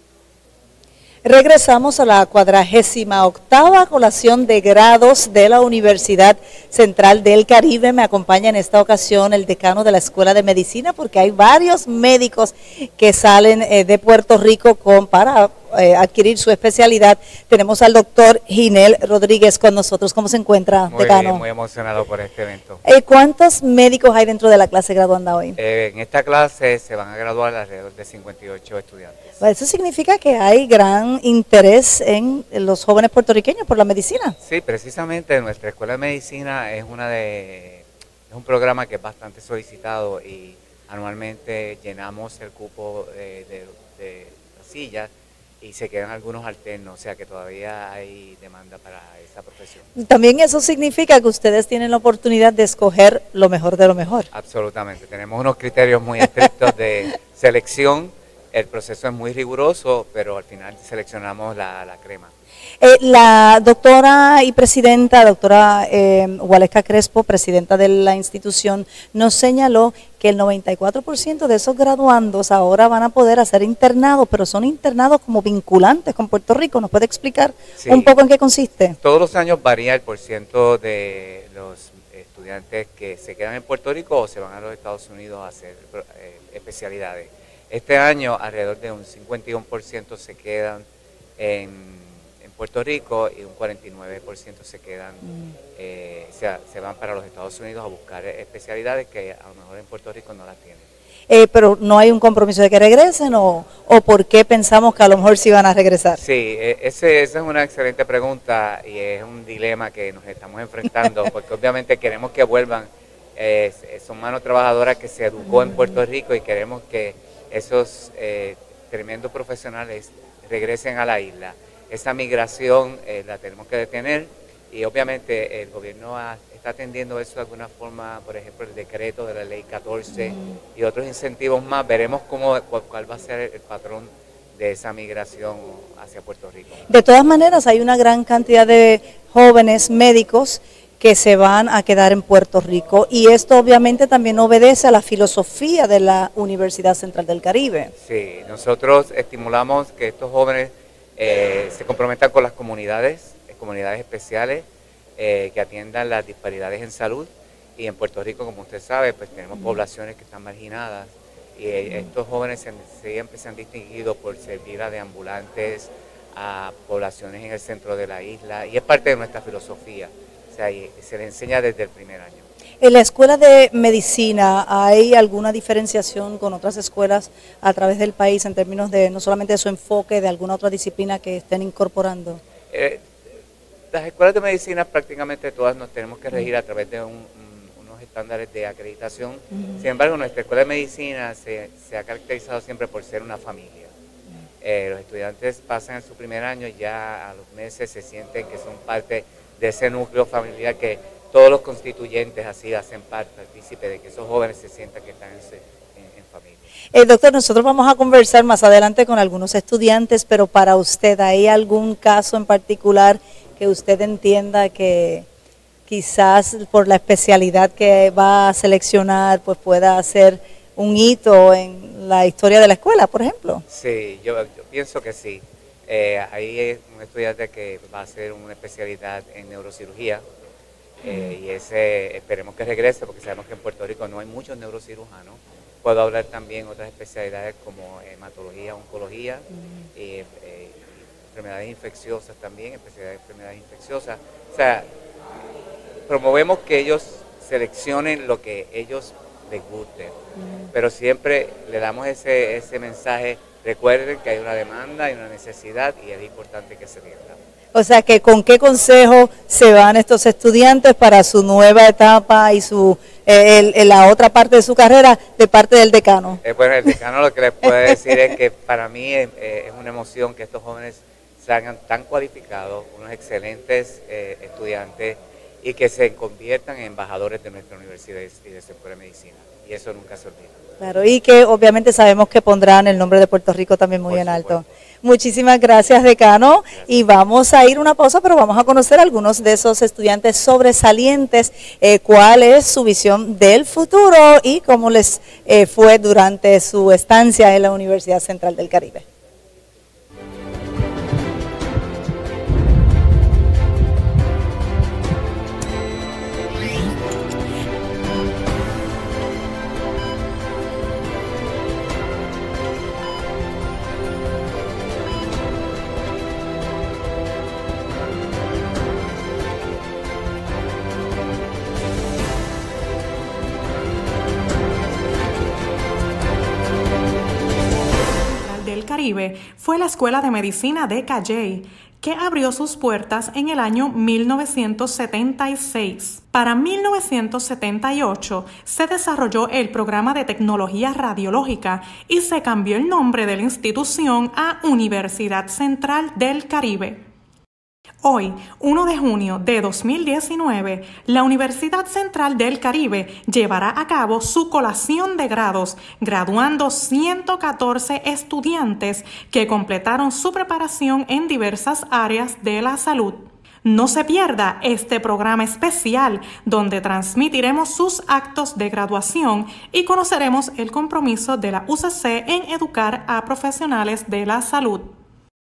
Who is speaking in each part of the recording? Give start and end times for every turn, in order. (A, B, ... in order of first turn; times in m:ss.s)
0:01.2-0:21.4 A
0:20.9-0:22.8 B
0:22.8-0:25.6 A
0:25.6-0:29.4 B
0:29.4-0:34.4 A
0:34.4-0:45.1 B
0:45.6-0:49.9 B
0:50.0-0:54.3 A
0:54.3-1:02.3 B
1:02.8-1:19.0 A
1:17.8-1:18.1 B
1:19.0-1:30.8 B
1:31.4-1:35.2 B
1:35.2-1:35.5 A
1:35.8-1:40.9 B
1:41.3-1:46.2 A
1:46.2-2:16.9 B
2:10.2-2:10.6 A
2:16.9-2:27.9 A
2:28.0-2:34.6 B
2:35.2-2:52.5 B
2:52.8-3:02.4 A
3:02.7-3:03.1 B
3:03.9-3:13.9 B
3:14.6-3:26.6 B
3:26.9-3:35.2 A
3:35.9-3:43.6 A
3:43.7-3:50.2 B
3:51.0-4:04.9 B
4:06.1-4:10.2 B
4:10.7-4:17.4 B
4:17.7-4:26.4 A
4:26.4-4:40.6 B
4:40.8-4:59.0 A
4:44.1-4:44.7 B
5:28.2-5:47.0 C
5:48.0-6:14.9 C